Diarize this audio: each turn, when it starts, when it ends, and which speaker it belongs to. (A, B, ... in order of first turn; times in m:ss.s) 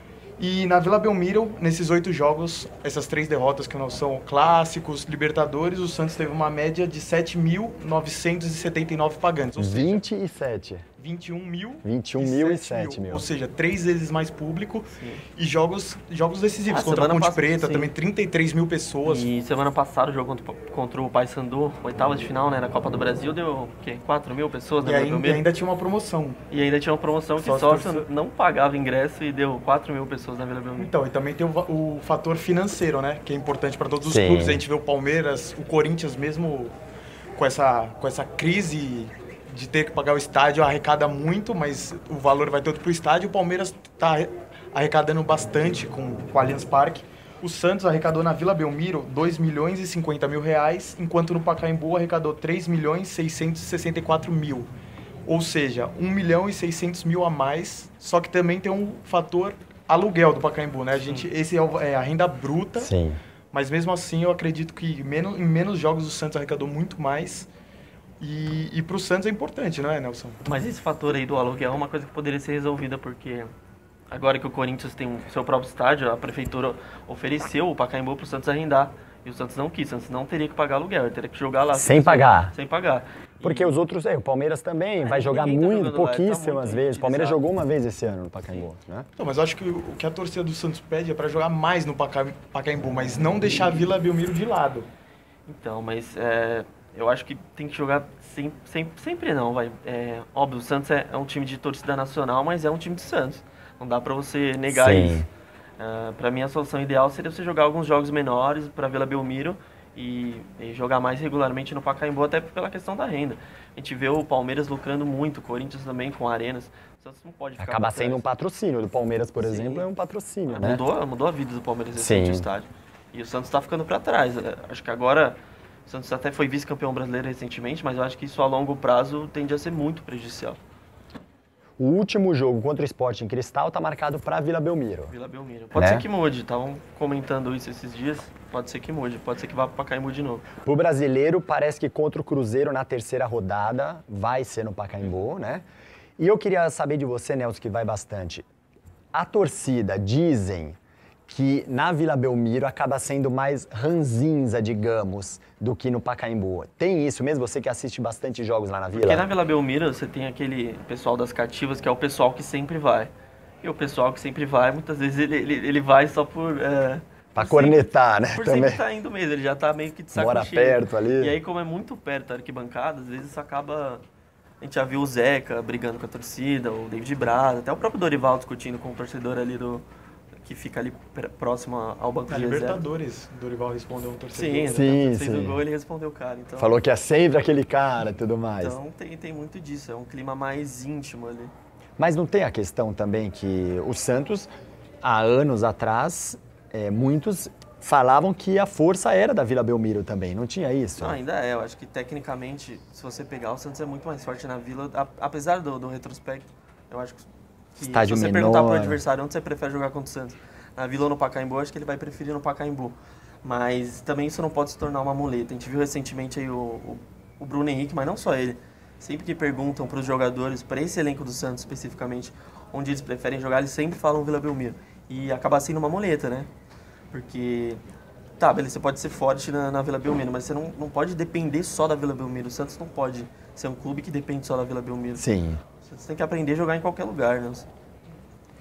0:00.4-0:10.0 A
0:09.6-0:10.9 B
0:11.0-0:19.3 A
0:11.8-0:13.3 B
0:15.0-0:15.2 C
0:16.7-0:17.9 C
0:19.0-0:25.4 C
0:24.8-0:26.4 A
0:26.5-0:30.9 C
0:27.4-0:28.1 A
0:30.8-0:36.7 A
0:34.0-0:34.6 B
0:37.4-0:54.7 A
0:55.3-1:02.9 A
1:02.8-1:03.2 B
1:03.5-1:07.5 A
1:08.2-1:10.4 A
1:10.4-1:13.5 C
1:14.1-1:23.8 C
1:21.7-1:22.5 B
1:23.4-1:29.1 B
1:25.0-1:27.4 C
1:29.2-1:34.9 A
1:35.5-1:45.2 C
1:44.7-1:45.3 B
1:45.8-1:58.2 C
1:57.6-2:00.8 B
1:59.4-1:59.9 C
2:00.5-2:10.6 C
2:02.0-2:02.5 B
2:11.8-2:15.1 B
2:15.1-2:20.5 C
2:15.8-2:16.0 B
2:20.6-2:25.6 B
2:26.2-2:28.4 B
2:29.1-2:30.8 B
2:31.3-2:39.3 B
2:38.9-2:43.1 C
2:43.6-2:54.0 C
2:47.4-2:48.8 B
2:50.1-2:51.4 B
2:54.6-2:59.8 C
3:00.4-3:02.8 C
3:02.3-3:04.8 A
3:04.3-3:06.8 C
3:04.7-3:05.6 B
3:06.6-3:08.8 B
3:08.6-3:11.5 C
3:12.0-3:14.5 B
3:15.0-3:21.2 B
3:21.0-3:46.5 C
3:27.8-3:29.0 B
3:47.1-3:47.8 C
3:48.4-3:55.2 C
3:55.2-3:55.6 B
3:55.8-3:57.7 C